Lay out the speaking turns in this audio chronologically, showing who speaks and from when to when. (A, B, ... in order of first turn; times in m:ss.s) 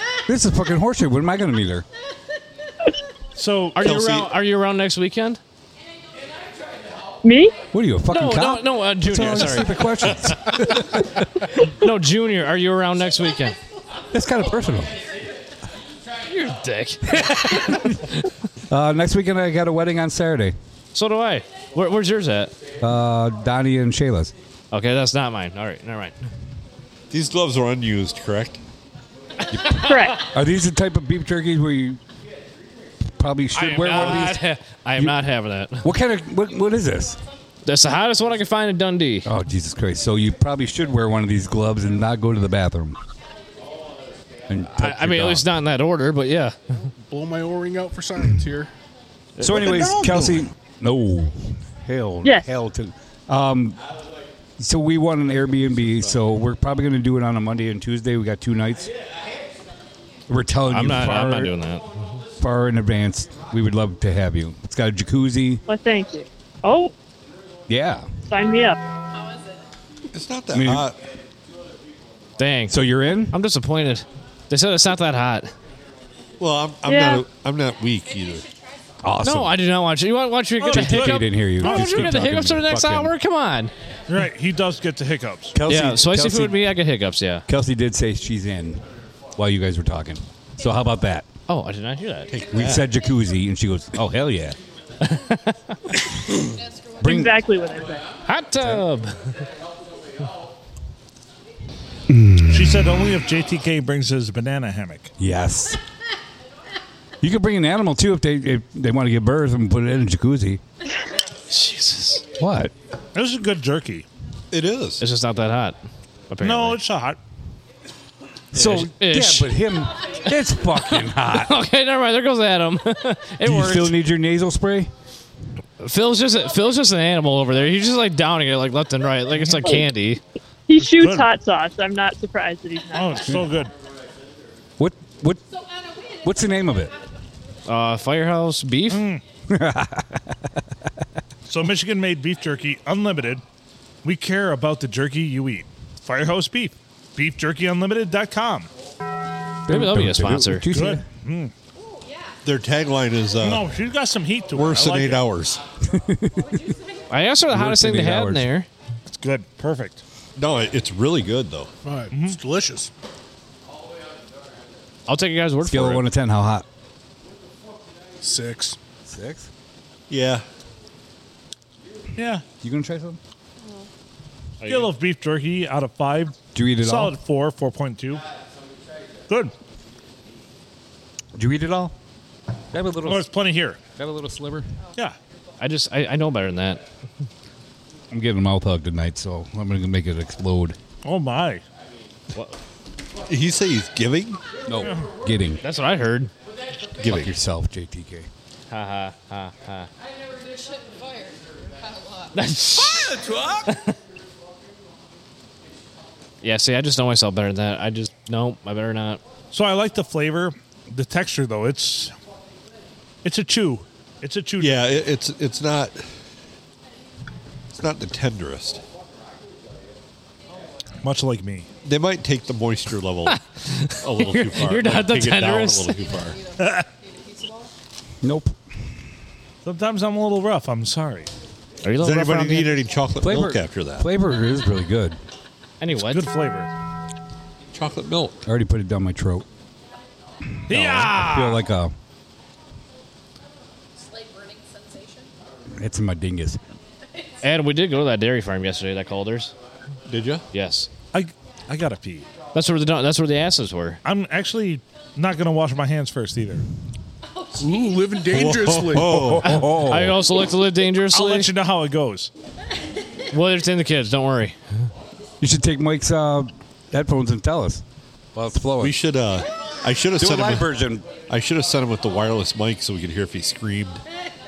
0:00.3-0:01.9 A
0:03.4-0:03.8 B
0:03.8-0:05.4 C
0:03.8-0:04.3 D
0:07.2-0:07.5 E
0:07.7-0:11.3 A
0:08.1-0:10.5 C
0:11.7-0:13.6 C
0:14.1-0:14.9 A
0:16.3-0:18.3 C
0:17.2-0:18.0 A
0:18.7-0:20.6 A
0:20.9-0:22.5 C
0:22.8-0:24.3 A
0:24.7-0:26.2 C
0:27.1-0:28.6 D
0:29.5-0:30.1 C
0:29.6-0:32.0 A
0:29.8-0:30.2 E
0:33.2-0:34.4 A
0:33.5-0:35.9 C
0:35.8-0:37.2 A
0:37.6-0:39.3 C
0:39.2-0:43.0 A
0:44.5-0:45.5 A
0:44.7-0:46.6 C
0:47.1-0:48.7 F
0:49.4-0:49.7 C
0:49.4-0:53.8 A
0:54.6-0:58.9 A
1:00.3-1:01.5 A
1:00.7-1:02.0 C
1:02.4-1:05.6 A
1:05.7-1:06.9 E
1:07.7-1:08.1 A
1:08.3-1:08.8 E
1:09.1-1:09.7 G
1:10.1-1:11.0 D
1:10.5-1:10.9 A
1:12.4-1:15.5 C
1:12.7-1:13.4 A
1:16.4-1:18.4 D
1:16.8-1:17.2 E
1:18.0-1:19.0 G
1:19.0-1:19.6 A
1:19.2-1:23.7 C
1:20.6-1:22.2 B
1:20.7-1:23.1 A
1:24.1-1:25.6 B
1:25.5-1:26.7 A
1:25.7-1:27.5 C
1:27.5-1:28.8 A
1:29.4-1:31.3 A
1:31.5-1:32.8 C
1:32.3-1:32.9 D
1:32.5-1:34.6 A
1:35.0-1:35.8 C
1:36.4-1:37.2 G
1:37.0-1:37.3 A
1:37.0-1:38.0 E
1:38.3-1:39.4 C
1:42.1-1:43.0 A
1:42.5-1:45.1 B
1:45.2-1:45.8 A
1:47.2-1:50.6 A
1:51.5-1:52.2 C
1:52.4-1:52.7 A
1:53.2-1:54.0 B
1:54.5-1:55.0 D
1:55.0-1:55.8 C
1:56.3-1:56.8 C
1:56.4-1:57.2 B
1:58.5-2:01.5 A
1:58.6-1:59.6 C
2:01.0-2:04.0 C
2:03.4-2:04.9 A
2:05.8-2:10.2 C
2:10.7-2:13.4 E
2:10.8-2:11.3 B
2:12.9-2:13.7 B
2:14.8-2:15.4 A
2:15.5-2:17.1 G
2:16.2-2:16.9 A
2:17.7-2:19.1 C
2:18.9-2:19.2 B
2:19.5-2:20.6 A
2:21.5-2:23.4 B
2:24.0-2:28.7 B
2:29.7-2:31.0 A
2:29.7-2:30.7 C
2:30.7-2:31.5 B
2:31.8-2:32.4 G
2:32.4-2:33.7 D
2:33.4-2:35.2 B
2:34.5-2:35.6 D
2:35.9-2:36.7 A
2:36.4-2:37.0 G
2:37.1-2:38.7 C
2:37.5-2:38.5 A
2:39.1-2:40.0 B
2:40.4-2:41.7 D
2:41.8-2:42.9 F
2:42.1-2:42.4 B
2:45.1-2:46.0 C
2:45.6-2:46.7 A
2:48.2-2:48.8 F
2:49.1-2:49.5 A
2:50.1-2:50.4 D
2:52.2-2:52.4 B
2:52.6-2:53.2 A
2:53.6-2:53.9 G
2:54.6-2:54.9 C
2:54.6-2:58.2 B
2:56.5-2:57.1 A
3:01.4-3:02.0 A
3:02.7-3:03.3 A
3:03.0-3:03.8 B
3:03.9-3:04.7 A
3:05.6-3:06.8 C
3:08.1-3:10.8 A
3:11.0-3:11.6 B
3:13.3-3:14.4 D
3:14.7-3:15.6 A
3:15.6-3:16.3 C
3:17.0-3:17.3 D
3:17.0-3:18.3 A
3:18.7-3:19.9 C
3:20.4-3:22.4 G
3:22.4-3:23.9 C
3:26.4-3:29.2 C
3:29.5-3:32.1 B
3:33.2-3:34.9 B
3:34.6-3:36.0 D
3:37.7-3:38.8 D
3:41.0-3:41.7 B
3:41.8-3:43.4 D
3:43.3-3:46.0 C
3:44.0-3:46.4 D
3:46.0-3:47.7 G
3:46.6-3:46.9 B
3:48.2-3:48.6 A
3:49.6-3:51.3 B
3:51.8-3:52.8 C
3:52.0-3:54.1 D
3:53.2-3:55.2 A
3:55.8-3:56.3 C
3:56.0-3:56.7 B
3:57.7-3:58.4 D
3:58.5-3:59.5 A
4:00.7-4:01.6 B
4:00.7-4:01.9 A
4:04.0-4:05.3 G
4:05.8-4:06.6 A
4:07.1-4:07.4 G
4:07.4-4:09.5 C
4:10.1-4:10.4 D
4:10.5-4:10.9 C
4:11.1-4:12.3 B
4:12.5-4:14.0 C
4:14.0-4:16.7 B
4:17.3-4:18.2 G
4:17.6-4:19.4 F
4:18.3-4:19.6 D
4:19.0-4:20.2 A
4:19.4-4:21.5 C
4:21.1-4:22.3 B
4:23.3-4:24.6 C
4:25.4-4:27.8 A
4:28.4-4:29.0 A
4:28.8-4:30.7 D
4:30.2-4:31.1 A
4:31.3-4:34.0 D